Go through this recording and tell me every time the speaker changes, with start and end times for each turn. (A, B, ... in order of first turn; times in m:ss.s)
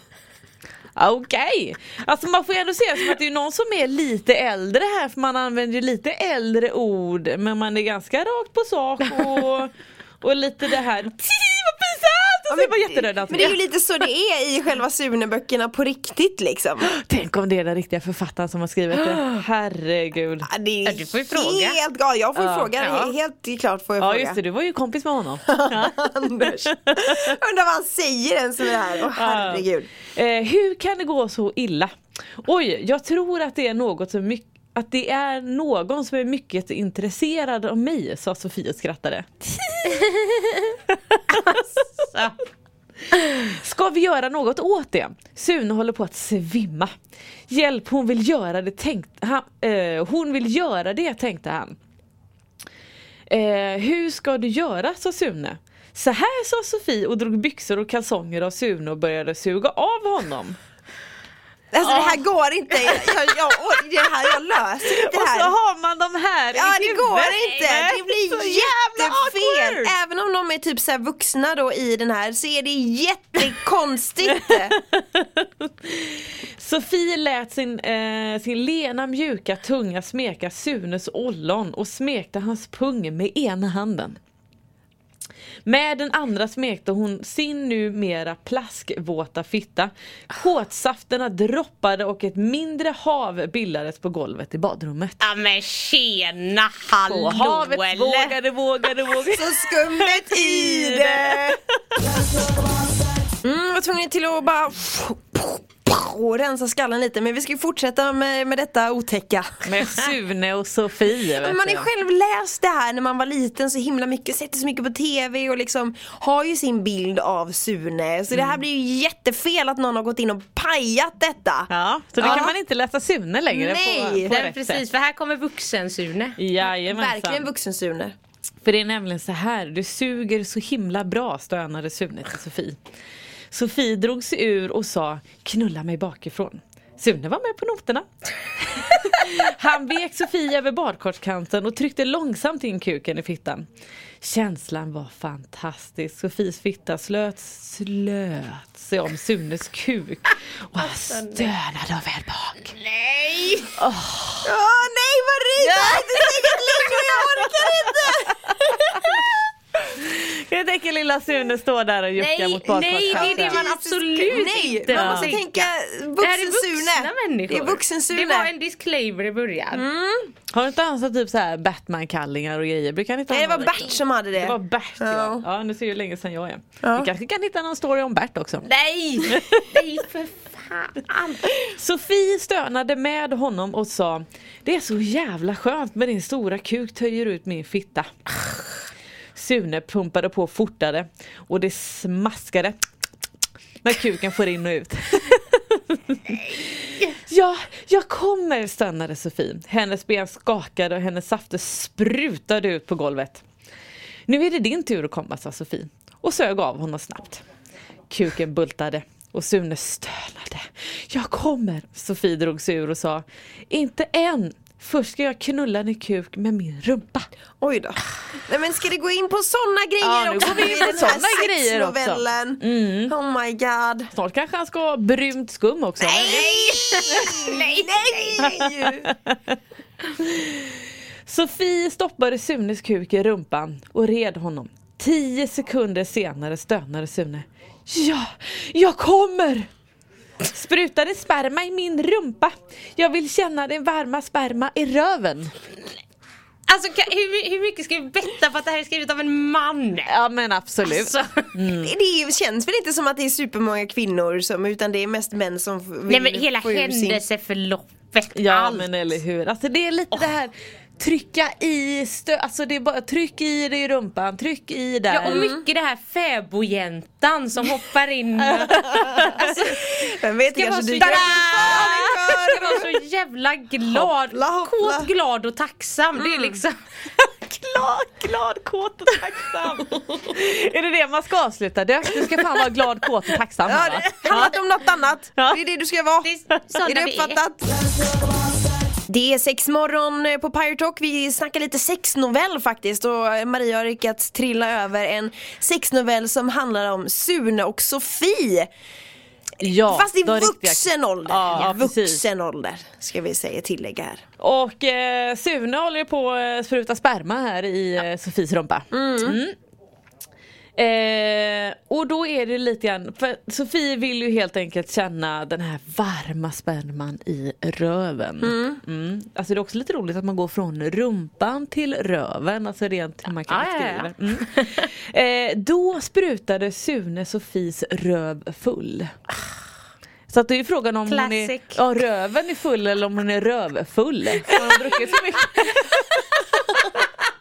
0:01.0-0:13.6 A
0:12.5-0:16.9 B
0:16.8-0:20.5 A
0:20.4-0:24.4 B
0:20.8-0:21.8 C
0:22.4-0:22.7 A
0:22.8-0:23.1 C
0:24.0-0:27.4 A
0:25.5-0:29.9 B
0:29.1-0:31.9 A
0:32.4-0:40.3 A
0:41.5-0:42.4 C
0:43.4-0:46.9 A
0:47.5-0:51.7 A
0:53.3-1:00.6 A
1:01.7-1:05.5 B
1:01.8-1:02.2 A
1:02.7-1:03.2 A
1:04.9-1:09.9 A
1:06.5-1:14.8 B
1:14.3-1:24.2 A
1:25.6-1:35.2 A
1:35.2-1:38.3 C
1:37.1-1:42.0 A
1:39.3-1:41.6 B
1:43.4-1:49.8 B
1:49.6-1:51.9 A
1:51.4-2:02.6 B
1:58.3-1:58.6 A
2:01.7-2:04.8 A
2:02.2-2:02.5 C
2:03.5-2:04.3 B
2:04.2-2:06.4 C
2:06.4-2:07.5 A
2:06.6-2:08.1 B
2:08.6-2:12.8 A
2:13.5-2:23.7 A
2:24.2-2:32.7 A
2:30.8-2:31.5 C
2:32.8-2:33.7 C
2:33.8-2:34.5 A
2:34.4-2:39.3 B
2:35.6-2:37.7 A
2:39.9-2:43.6 A
2:42.2-2:45.7 C
2:43.0-2:48.5 B
2:44.9-2:45.4 A
2:46.2-2:49.8 C
2:49.7-2:50.3 B
2:50.5-2:58.6 A
2:53.3-2:55.4 B
2:56.8-2:57.1 B
2:58.6-3:01.4 C
2:59.2-2:59.7 A
3:01.6-3:08.1 A
3:09.3-3:12.8 A
3:13.8-3:23.4 A
3:24.3-3:27.4 A
3:28.1-3:37.2 A
3:37.6-3:44.1 B
3:40.0-3:43.1 A
3:44.1-3:47.8 A
3:46.0-3:49.1 B
3:46.8-3:47.6 C
3:48.4-3:49.4 A
3:50.1-3:59.7 A
4:00.4-4:05.5 A
4:06.7-4:10.1 C
4:10.1-4:11.9 A
4:10.8-4:11.5 C
4:11.8-4:17.2 B
4:16.1-4:19.2 C
4:18.3-4:25.5 A
4:25.1-4:28.9 C
4:25.3-4:25.6 B
4:28.6-4:29.5 A
4:29.2-4:32.9 B
4:30.5-4:36.8 C
4:31.0-4:32.8 A
4:33.9-4:35.1 B
4:36.2-4:36.6 B
4:37.2-4:44.6 A
4:43.6-4:46.3 B
4:46.2-4:47.4 C
4:46.8-4:47.7 B
4:49.1-4:58.7 B
4:59.6-5:02.2 A
4:59.7-5:04.2 B
5:04.4-5:09.5 A
5:08.9-5:09.4 B
5:10.8-5:29.1 A
5:18.4-5:18.8 B
5:23.5-5:24.9 C
5:30.3-5:36.2 A
5:31.1-5:31.8 C